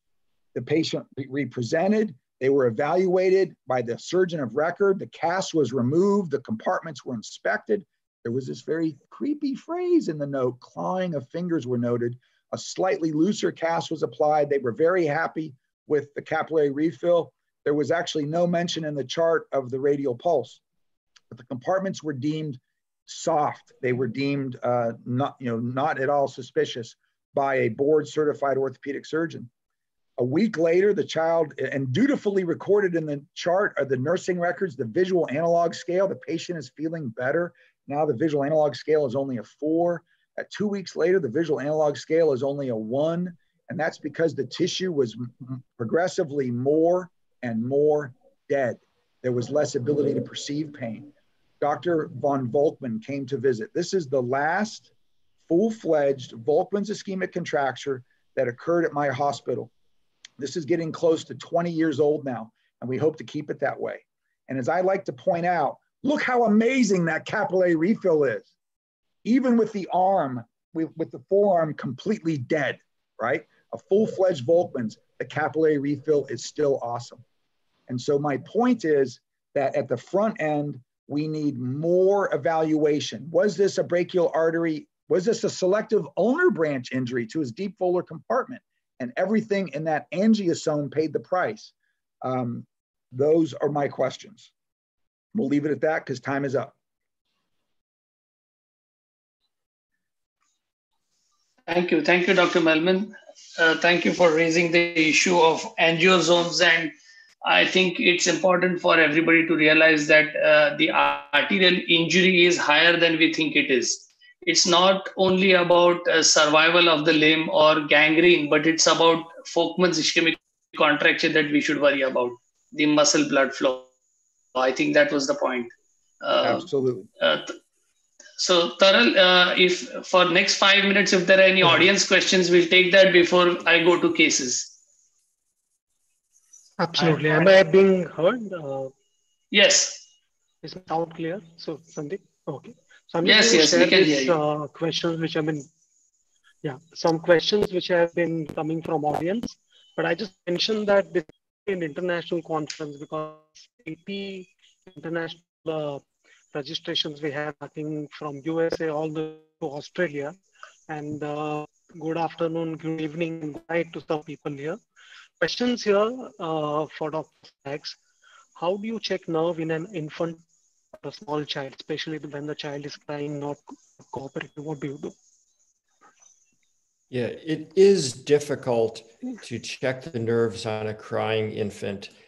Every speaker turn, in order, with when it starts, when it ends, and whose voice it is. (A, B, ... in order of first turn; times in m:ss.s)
0:00.5-0:20.6 A
0:21.3-0:29.5 A
0:30.2-0:54.9 A
0:55.5-0:59.7 A
1:00.4-1:08.5 A
1:09.2-1:17.2 A
1:17.9-1:34.5 A
1:35.3-1:36.7 A
1:41.7-1:46.9 B
1:47.4-2:03.9 B
2:04.6-2:06.7 B
2:06.4-2:07.1 A
2:07.2-2:07.6 B
2:08.4-2:14.7 B
2:16.8-2:18.9 C
2:17.0-2:17.6 B
2:19.5-2:20.0 B
2:20.6-2:25.7 C
2:23.2-2:24.4 B
2:26.6-2:44.8 C
2:45.4-2:48.0 C
2:48.6-2:50.4 C
2:51.0-2:55.1 C
2:57.1-3:02.1 D